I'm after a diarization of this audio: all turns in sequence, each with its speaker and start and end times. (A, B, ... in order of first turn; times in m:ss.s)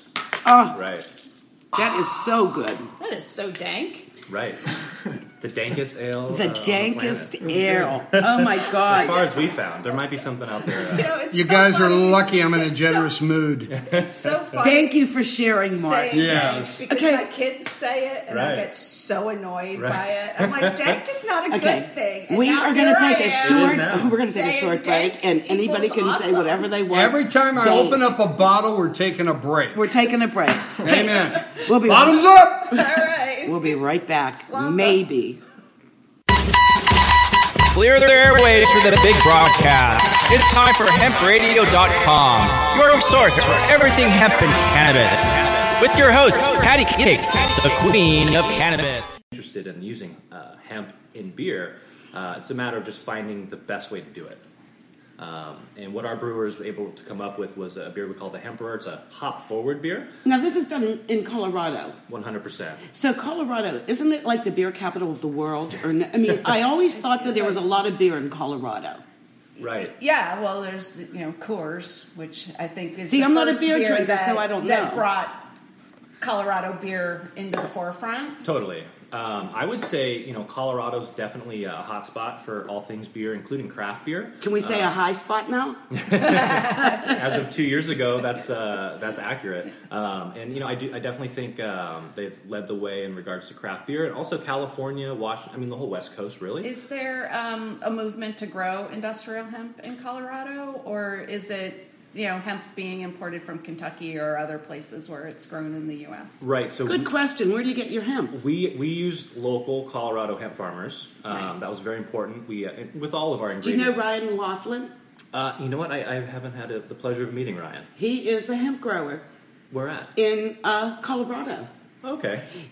0:00.4-0:00.8 A
0:00.7-0:01.1 B
0:01.7-0:02.9 A
0:03.0-0:04.1 C
0:04.3-0:04.8 B
0:05.4-0:11.1 B
0:06.3-0:09.3 A
0:08.9-0:09.3 C
0:10.7-0:13.1 C
0:11.3-0:13.7 D
0:13.7-0:14.3 B
0:13.8-0:14.9 C
0:14.6-0:17.2 A
0:15.7-0:26.7 C
0:16.1-0:16.8 D
0:18.3-0:18.7 B
0:19.7-0:21.0 B
0:21.5-0:28.1 A
0:23.4-0:24.2 B
0:26.9-0:29.8 D
0:29.7-0:32.3 A
0:30.8-0:33.0 D
0:31.0-0:31.6 C
0:32.7-0:33.7 C
0:33.4-0:35.4 A
0:34.5-0:35.0 C
0:37.7-0:49.1 E
0:49.3-0:54.4 B
0:55.2-1:00.1 B
1:00.2-1:02.0 A
1:02.1-1:02.8 B
1:02.9-1:09.0 A
1:06.9-1:07.6 C
1:09.6-1:15.4 C
1:09.6-1:09.9 B
1:13.1-1:15.0 A
1:16.2-1:18.4 C
1:18.4-1:24.9 B
1:24.4-1:27.1 A
1:25.9-1:36.7 B
1:26.3-1:27.2 C
1:36.6-1:46.4 C
1:46.4-1:47.1 B
1:46.8-1:48.3 A
1:48.3-1:54.2 B
1:51.3-1:51.7 C
1:53.6-1:54.9 A
1:55.3-1:57.9 B
1:58.0-1:59.2 A
1:59.7-2:00.1 B
2:00.2-2:01.7 A
2:02.0-2:02.4 B